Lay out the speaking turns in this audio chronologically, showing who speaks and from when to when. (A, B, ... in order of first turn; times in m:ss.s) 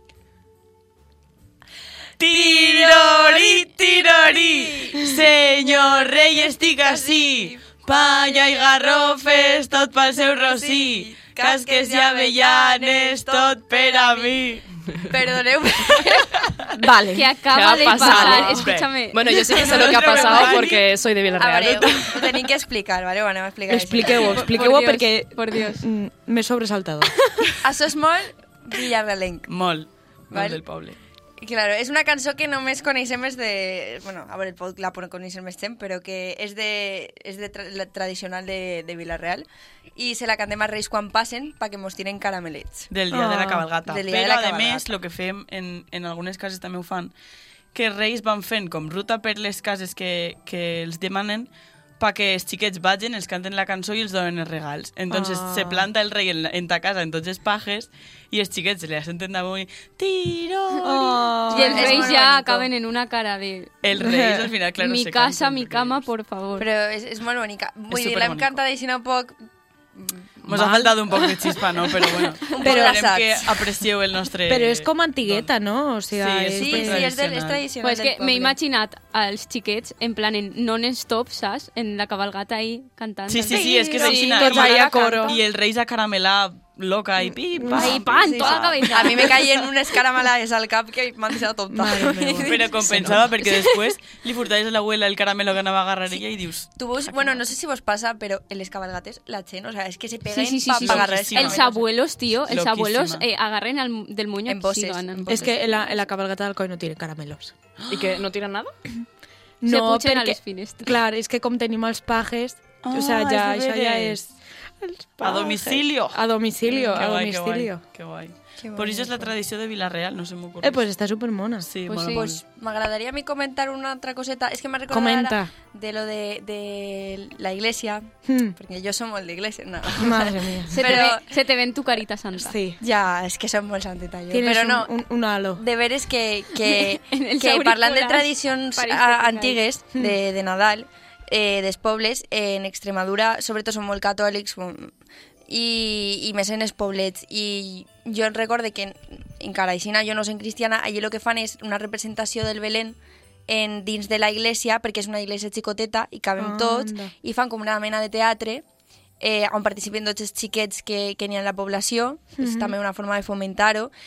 0:02.2-0:14.6 A
0:02.3-0:05.2 B
0:05.7-0:06.0 B
0:06.8-0:07.6 B
0:08.3-0:08.6 B
0:10.4-0:14.4 B
0:15.1-0:16.6 B
0:16.7-0:17.3 C
0:17.1-0:19.4 D
0:17.5-0:22.0 E
0:18.0-0:18.4 C
0:18.4-0:20.9 A
0:19.7-0:20.6 B
0:21.3-0:24.6 B
0:21.8-0:22.1 A
0:23.7-0:27.2 C
0:24.1-0:25.8 D
0:27.6-0:29.5 B
0:29.5-0:31.0 A
0:30.3-0:30.6 B
0:31.4-0:42.9 B
0:42.9-0:47.1 A
0:43.1-0:43.7 C
0:43.8-0:44.9 B
0:47.7-1:01.3 A
0:55.1-0:55.9 C
1:00.8-1:02.1 C
1:01.5-1:03.8 D
1:01.5-1:02.7 B
1:03.8-1:06.1 A
1:04.0-1:04.5 C
1:04.8-1:06.7 D
1:06.6-1:09.4 B
1:07.9-1:08.6 A
1:09.9-1:10.3 B
1:10.4-1:11.2 C
1:10.4-1:15.5 A
1:12.4-1:13.6 B
1:12.6-1:13.0 C
1:14.5-1:17.1 C
1:16.1-1:17.6 A
1:16.5-1:18.6 B
1:17.8-1:25.3 D
1:23.3-1:29.4 A
1:23.5-1:25.4 C
1:23.6-1:24.7 B
1:27.3-1:28.6 C
1:27.7-1:29.4 D
1:28.9-1:33.3 B
1:31.7-1:33.3 C
1:32.4-1:37.3 A
1:36.7-1:41.8 B
1:40.3-1:45.5 D
1:40.8-1:41.6 A
1:42.4-1:43.2 A
1:44.5-1:45.6 B
1:45.3-1:47.5 C
1:47.8-1:48.7 E
1:49.6-1:57.8 C
1:49.6-1:50.9 D
1:52.8-1:54.2 A
1:55.2-2:00.8 A
1:58.6-1:59.3 B
2:00.6-2:01.7 C
2:01.6-2:02.4 A
2:01.9-2:02.3 D
2:02.1-2:11.2 B
2:04.9-2:05.5 C
2:08.3-2:08.6 C
2:10.0-2:11.0 C
2:10.7-2:12.6 D
2:12.4-2:12.8 C
2:12.8-2:14.9 B
2:14.3-2:15.6 C
2:15.6-2:24.9 B
2:16.6-2:19.6 D
2:25.5-2:33.0 B
2:33.5-2:38.6 B
2:36.4-2:37.1 C
2:39.2-2:43.9 B
2:42.4-2:42.8 C